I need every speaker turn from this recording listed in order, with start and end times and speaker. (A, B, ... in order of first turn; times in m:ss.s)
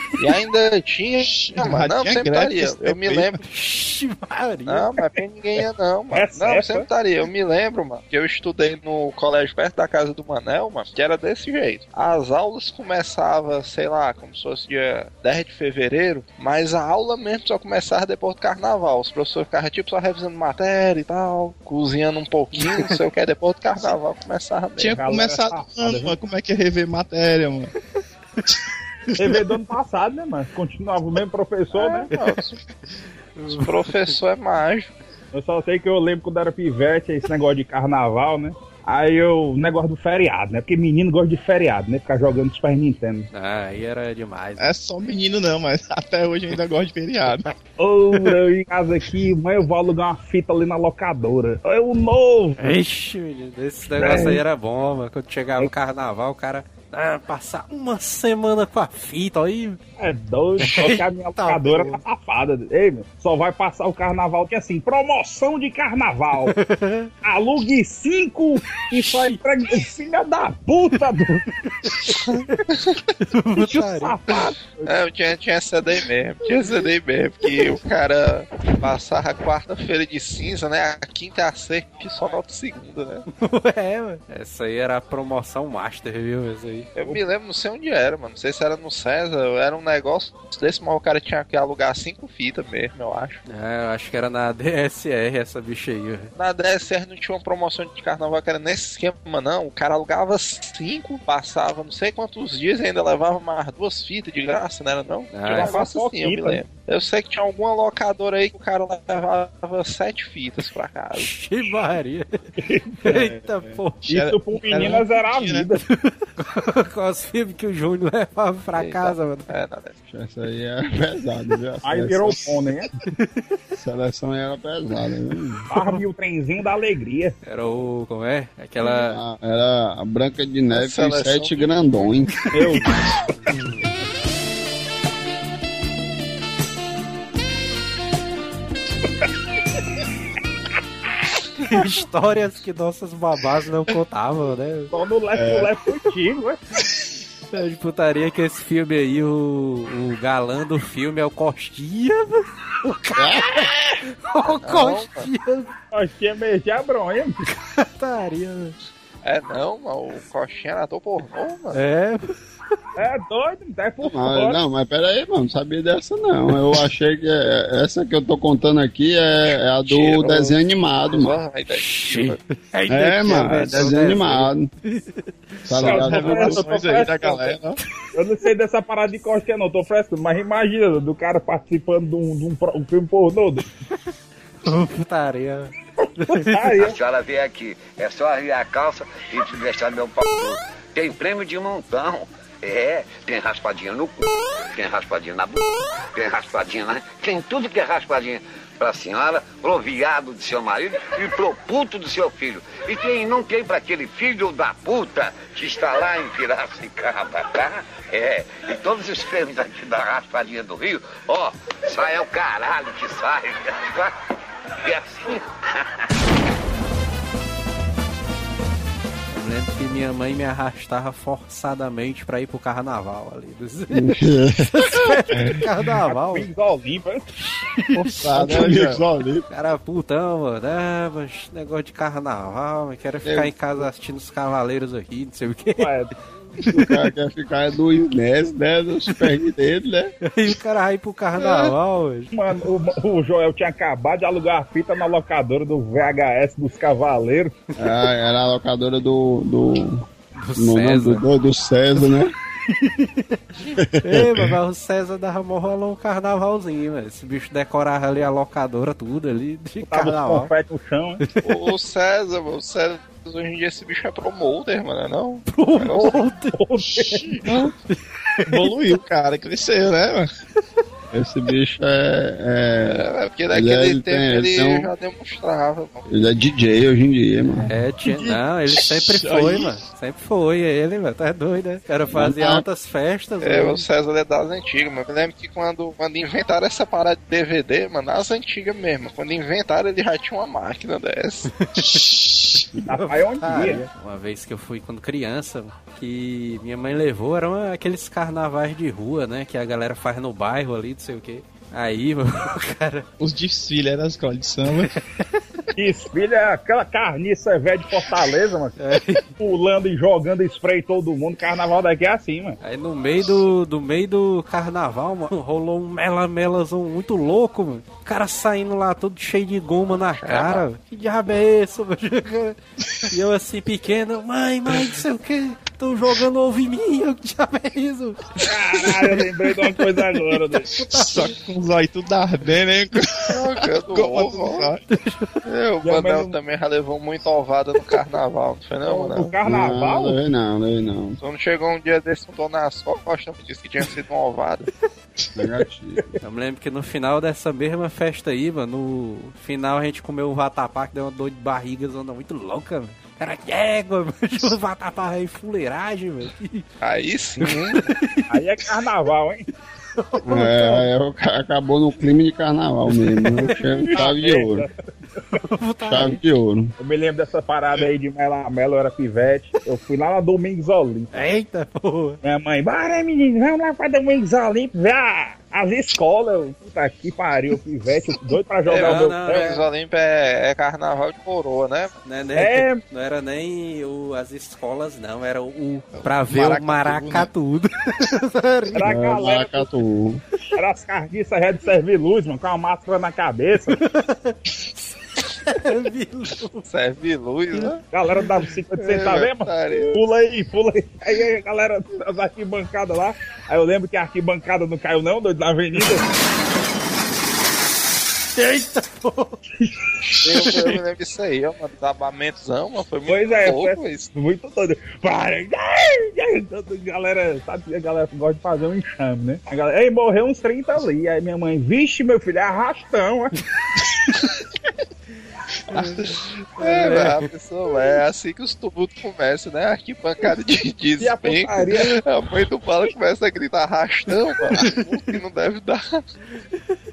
0:00.2-0:03.4 A
0:01.3-0:03.3 B
0:03.4-0:04.9 C
0:04.7-0:25.1 A
0:06.1-0:06.8 D
0:22.6-0:22.8 C
0:24.8-0:27.7 B
0:24.9-0:26.1 D
0:29.1-0:32.1 D
0:31.7-0:32.6 A
0:32.1-0:32.4 C
0:33.4-0:34.1 C
0:33.5-0:34.9 A
0:35.3-0:43.3 D
0:43.3-0:44.7 C
0:44.6-0:47.4 B
0:47.8-0:52.6 D
0:52.6-0:59.8 C
0:54.0-0:54.4 D
1:00.0-1:06.6 D
1:00.6-1:02.0 C
1:06.5-1:07.1 C
1:07.2-1:11.4 D
1:08.9-1:09.4 C
1:11.8-1:12.6 C
1:12.7-1:13.0 A
1:13.2-1:14.2 C
1:13.6-1:14.9 D
1:14.8-1:23.2 A
1:23.4-1:26.9 C
1:27.0-1:33.4 A
1:33.5-1:36.3 C
1:36.3-1:51.8 A
1:45.3-1:45.8 C
1:45.5-1:46.6 D
1:51.2-1:52.5 C
1:52.6-1:53.2 D
1:53.0-1:54.0 C
1:54.0-1:55.7 B
1:54.1-1:55.8 D
1:55.9-1:59.5 C
1:58.8-1:59.9 A
2:00.1-2:02.4 E
2:01.8-2:02.9 D
2:03.8-2:05.6 E
2:05.7-2:07.3 D
2:07.4-2:09.2 C
2:08.8-2:12.5 E
2:10.7-2:11.7 A
2:12.5-2:13.0 D
2:13.5-2:13.9 C
2:21.6-2:24.9 C
2:24.9-2:26.6 D
2:25.4-2:25.7 E
2:27.5-2:35.7 C
2:33.1-2:33.6 E
2:34.6-2:35.3 A
2:35.9-2:37.4 D
2:37.4-2:38.8 C
2:39.2-2:41.8 A
2:41.7-2:42.2 C
2:43.0-2:44.6 D
2:44.0-2:51.3 E
2:49.8-2:50.6 A
2:51.1-2:52.2 A
2:51.7-2:55.9 C
2:52.9-2:54.7 E
2:55.7-2:56.7 E
2:55.8-2:57.8 B
2:55.8-2:57.6 D
2:58.1-3:03.6 D
3:04.6-3:05.7 C
3:06.2-3:06.8 C
3:06.2-3:07.0 D
3:06.8-3:34.2 F
3:34.8-3:35.5 F
3:39.3-3:46.5 C
3:43.9-3:45.6 E
3:46.0-3:47.2 D
3:47.4-3:48.2 C
3:48.0-3:49.0 B
3:48.2-3:49.4 E
3:49.5-3:55.9 C
3:53.2-3:53.5 E
3:55.8-3:56.1 D
3:56.7-4:00.1 E
4:00.2-4:02.3 C
4:02.3-4:07.5 D
4:07.8-4:10.0 E
4:10.4-4:11.2 C
4:10.6-4:12.3 E
4:12.7-4:13.4 C
4:13.8-4:14.6 E
4:14.0-4:20.5 C
4:19.8-4:21.2 D
4:21.4-4:26.2 A
4:25.5-4:26.5 C
4:26.5-4:27.3 D
4:27.4-4:27.7 E
4:27.9-4:28.6 C
4:28.5-4:30.3 B
4:31.1-4:34.9 E
4:32.9-4:36.1 A
4:36.1-4:37.7 E
4:37.7-4:43.8 C
4:39.1-4:39.7 B
4:42.1-4:42.6 E
4:43.4-4:51.5 A
4:51.6-4:52.1 C
4:51.8-4:52.7 B
4:52.8-4:53.9 D
4:52.9-5:03.0 C
5:03.2-5:04.9 B
5:05.2-5:05.6 C
5:05.7-5:08.8 D
5:08.8-5:09.2 C
5:09.4-5:12.6 D
5:12.6-5:22.6 C
5:20.1-5:20.6 A
5:23.1-5:28.3 C
5:28.4-5:30.7 D
5:30.7-5:31.3 C
5:30.9-5:34.8 B
5:33.3-5:34.7 A
5:34.9-5:35.4 C
5:35.4-5:39.3 A
5:35.8-5:36.3 D
5:38.8-5:40.2 D
5:39.4-5:41.2 E
5:41.2-5:44.7 A
5:45.3-5:46.1 E
5:46.2-5:56.7 C
5:56.8-5:57.8 A
5:57.4-5:58.3 C
5:58.3-5:59.5 D
6:00.0-6:00.8 C
6:00.2-6:04.6 E
6:03.4-6:05.2 D
6:03.5-6:04.1 C
6:05.4-6:06.2 C
6:05.8-6:06.7 E
6:06.8-6:11.3 D
6:11.1-6:12.2 C
6:12.2-6:19.5 D
6:18.6-6:21.9 A
6:18.7-6:19.6 C
6:22.0-6:29.1 C
6:22.4-6:22.8 D
6:25.9-6:27.3 B
6:28.7-6:29.7 D
6:28.8-6:30.2 E
6:30.5-6:33.8 D
6:33.8-6:34.5 C
6:35.2-6:36.7 C
6:36.7-6:37.8 A
6:37.9-6:46.1 D
6:38.8-6:40.0 A
6:48.4-6:49.4 C
6:50.2-6:54.1 A
6:50.3-6:50.7 B
6:53.0-7:03.4 D
7:05.7-7:07.2 C
7:05.7-7:06.1 B
7:06.6-7:16.0 A
7:11.0-7:12.0 D